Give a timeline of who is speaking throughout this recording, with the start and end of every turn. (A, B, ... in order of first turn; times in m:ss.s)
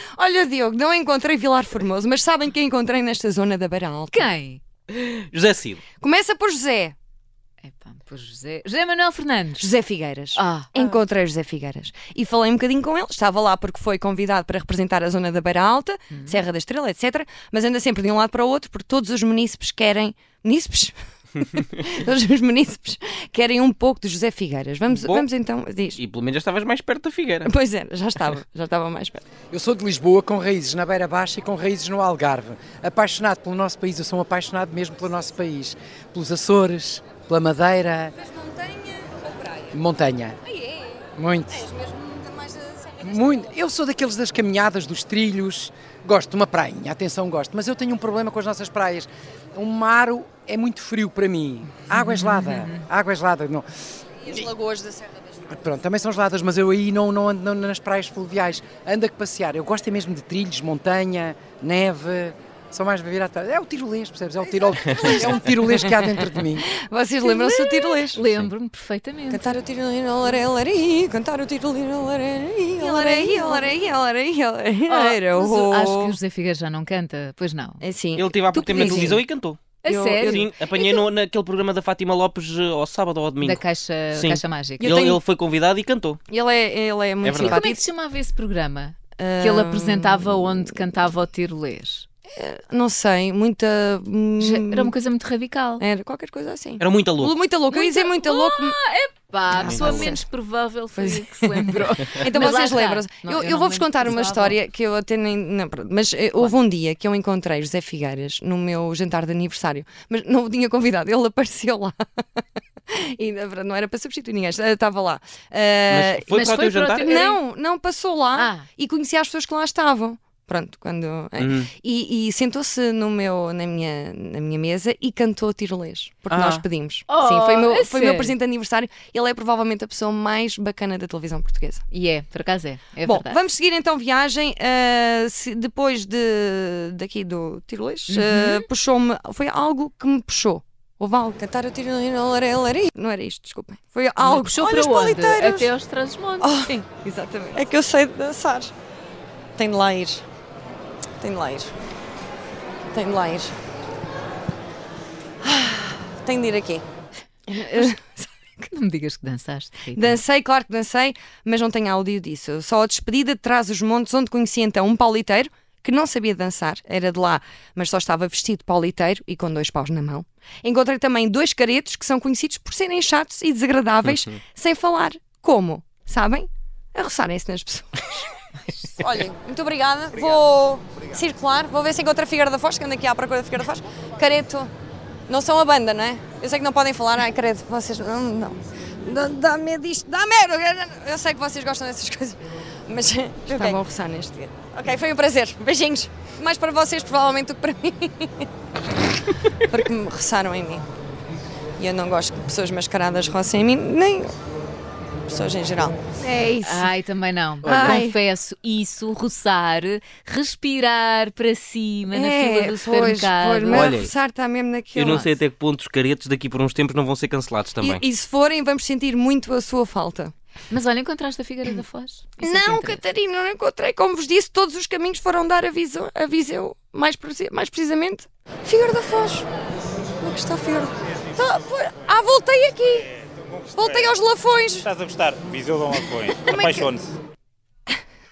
0:00.2-0:04.3 A
0:04.1-0:04.6 B
0:04.9-0:05.8 C
0:06.0-0:06.9 A
0:07.6-0:09.7 B
0:09.6-0:26.0 A
0:10.3-0:10.7 B
0:16.1-0:16.4 B
0:24.9-0:25.2 C
0:26.0-0:27.5 C
0:27.4-0:29.2 A
0:29.5-0:38.1 D
0:38.3-0:39.2 A
0:39.7-0:40.4 D
0:41.2-0:41.7 D
0:41.9-0:42.9 A
0:43.0-0:53.6 D
0:51.9-0:52.8 B
0:54.2-0:55.2 A
0:55.5-1:06.7 D
1:05.0-1:05.4 A
1:06.7-1:08.2 A
1:07.2-1:09.5 B
1:08.2-1:08.5 C
1:09.3-1:16.2 A
1:12.8-1:13.6 B
1:14.9-1:17.8 B
1:17.8-1:19.2 A
1:18.1-1:19.6 C
1:18.7-1:19.2 B
1:19.8-1:21.0 B
1:19.8-1:20.5 A
1:20.1-1:26.2 C
1:23.4-1:24.9 B
1:24.8-1:25.2 A
1:26.3-1:27.8 A
1:27.2-1:27.7 C
1:27.4-1:32.0 B
1:29.2-1:30.8 A
1:32.4-1:34.9 A
1:34.4-1:35.8 B
1:35.8-1:38.8 A
1:36.8-1:37.4 C
1:37.7-1:44.6 B
1:39.5-1:40.2 C
1:39.7-1:40.2 A
1:41.0-1:52.0 A
1:52.9-1:56.4 A
1:55.9-1:57.1 C
1:56.3-1:57.4 B
1:57.0-2:11.8 A
1:58.3-1:58.6 B
2:01.4-2:01.7 C
2:06.3-2:06.6 C
2:07.1-2:08.4 B
2:11.9-2:13.4 B
2:13.0-2:25.7 A
2:18.1-2:18.6 B
2:24.2-2:26.6 B
2:26.4-2:28.7 A
2:29.6-2:30.2 A
2:31.2-2:31.7 A
2:32.9-2:33.5 A
2:35.4-2:36.8 A
2:37.5-2:38.3 A
2:37.5-2:37.9 B
2:38.7-2:40.2 B
2:39.9-2:58.3 A
2:58.8-3:04.7 A
3:05.3-3:18.5 A
3:13.5-3:13.8 B
3:19.7-3:20.8 A
3:21.8-3:24.3 A
3:25.3-3:26.9 A
3:26.6-3:34.0 B
3:27.6-3:28.0 C
3:27.6-3:28.2 A
3:32.1-3:35.3 A
3:33.7-3:34.1 C
3:35.0-3:38.0 C
3:35.0-3:35.3 B
3:37.8-3:40.3 A
3:40.7-3:43.0 B
3:42.4-3:49.5 A
3:50.2-3:53.1 A
3:53.2-3:54.2 E
3:53.8-3:54.9 A
3:54.8-3:57.1 E
3:56.5-3:56.9 A